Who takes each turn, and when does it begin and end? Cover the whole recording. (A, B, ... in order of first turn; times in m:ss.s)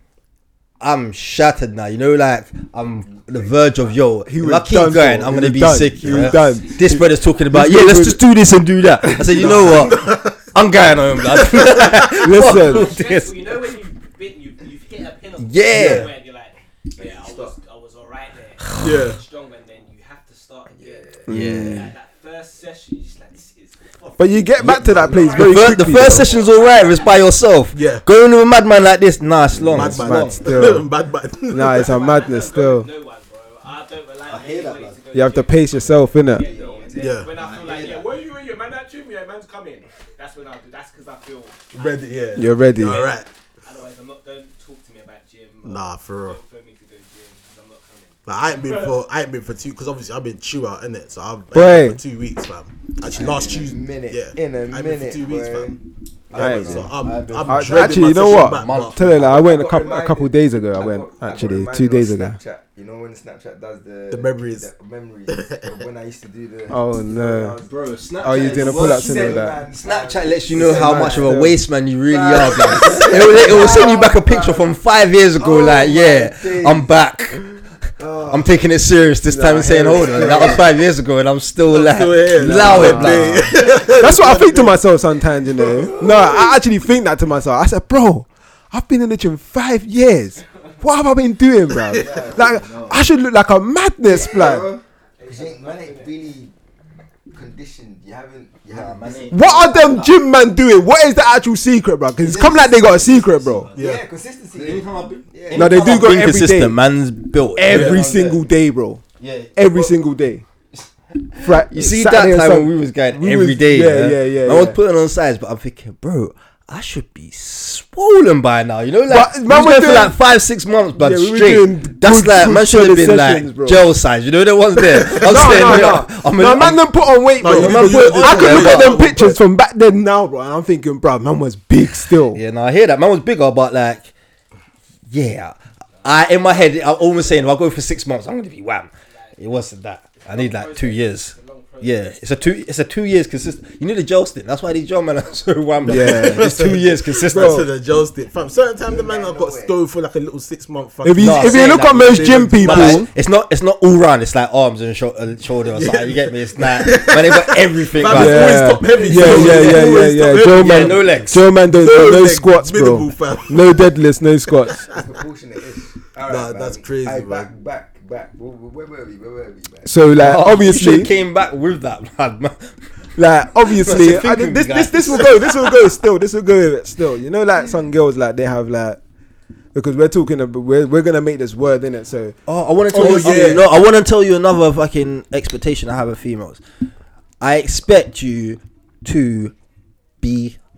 0:00.8-0:13.6 A
0:03.1-0:03.4 B
0:04.3-0:08.2 C
0:09.0-0:09.6 C
0:09.3-0:10.4 D
0:11.3-0:12.2 D
0:12.2-0:12.9 C
0:12.5-0:27.3 E
0:15.4-0:16.1 B
0:15.6-0:16.0 A
0:16.9-0:17.5 B
0:18.7-0:19.0 A
0:18.8-0:19.2 D
0:20.8-0:21.5 B
0:21.3-0:21.9 C
0:21.3-0:21.9 A
0:24.2-0:26.3 C
0:24.6-0:30.4 A
0:24.8-0:25.3 B
0:27.7-0:28.0 D
0:29.7-0:30.8 C
0:29.7-0:32.0 D
0:31.5-0:32.9 C
0:31.7-0:49.0 E
0:34.3-0:35.0 A
0:35.1-0:36.5 C
0:36.3-0:37.8 B
0:37.0-0:37.3 D
0:37.4-0:38.0 A
0:41.8-0:43.3 D
0:42.4-0:43.0 C
0:45.6-0:46.4 D
0:48.3-0:55.8 D
0:51.5-0:52.0 C
0:53.1-0:56.9 B
0:56.3-0:59.1 D
0:56.4-0:56.9 C
0:56.8-0:59.6 A
0:57.5-1:02.4 C
0:59.2-1:11.5 B
1:04.1-1:04.7 D
1:05.3-1:05.8 D
1:06.7-1:07.6 C
1:07.7-1:17.4 A
1:08.2-1:09.6 C
1:10.6-1:11.6 C
1:12.1-1:14.8 B
1:15.4-1:16.9 B
1:18.0-1:18.6 B
1:18.3-1:23.5 A
1:19.3-1:20.6 C
1:19.9-1:20.6 B
1:21.7-1:24.9 D
1:22.4-1:34.8 C
1:25.5-1:26.1 D
1:26.2-1:26.5 B
1:31.8-1:32.1 D
1:31.9-1:33.0 B
1:34.1-1:36.5 B
1:35.2-1:36.2 E
1:37.3-1:40.1 B
1:38.7-1:40.1 A
1:39.3-1:43.7 C
1:42.2-1:46.1 B
1:43.8-1:44.0 D
1:44.6-1:48.4 A
1:45.5-1:46.8 C
1:47.6-1:49.0 C
1:47.7-1:48.0 D
1:49.2-1:49.8 A
1:49.6-1:50.4 C
1:51.2-2:06.8 A
1:51.4-1:54.8 C
1:59.1-2:00.2 C
2:01.0-2:03.8 C
2:05.0-2:12.4 C
2:05.0-2:05.8 D
2:07.4-2:09.4 D
2:07.4-2:09.0 A
2:12.3-2:14.1 A
2:15.1-2:27.7 A
2:16.0-2:17.7 E
2:19.1-2:19.6 E
2:20.1-2:22.6 E
2:25.8-2:26.8 C
2:25.9-2:33.0 D
2:27.3-2:27.7 C
2:28.8-2:29.8 B
2:31.0-2:33.1 C
2:31.2-2:41.4 A
2:35.7-2:43.9 D
2:38.0-2:44.8 C
2:44.6-2:44.9 D
2:44.9-2:50.0 B
2:46.3-2:47.5 D
2:49.8-2:51.1 C
2:50.2-2:52.7 A
2:53.2-2:59.0 C
2:53.7-2:55.9 A
2:59.7-3:02.4 C
3:02.5-3:06.6 A
3:02.9-3:03.6 C
3:03.0-3:03.6 D
3:07.4-3:09.5 A
3:10.2-3:10.6 A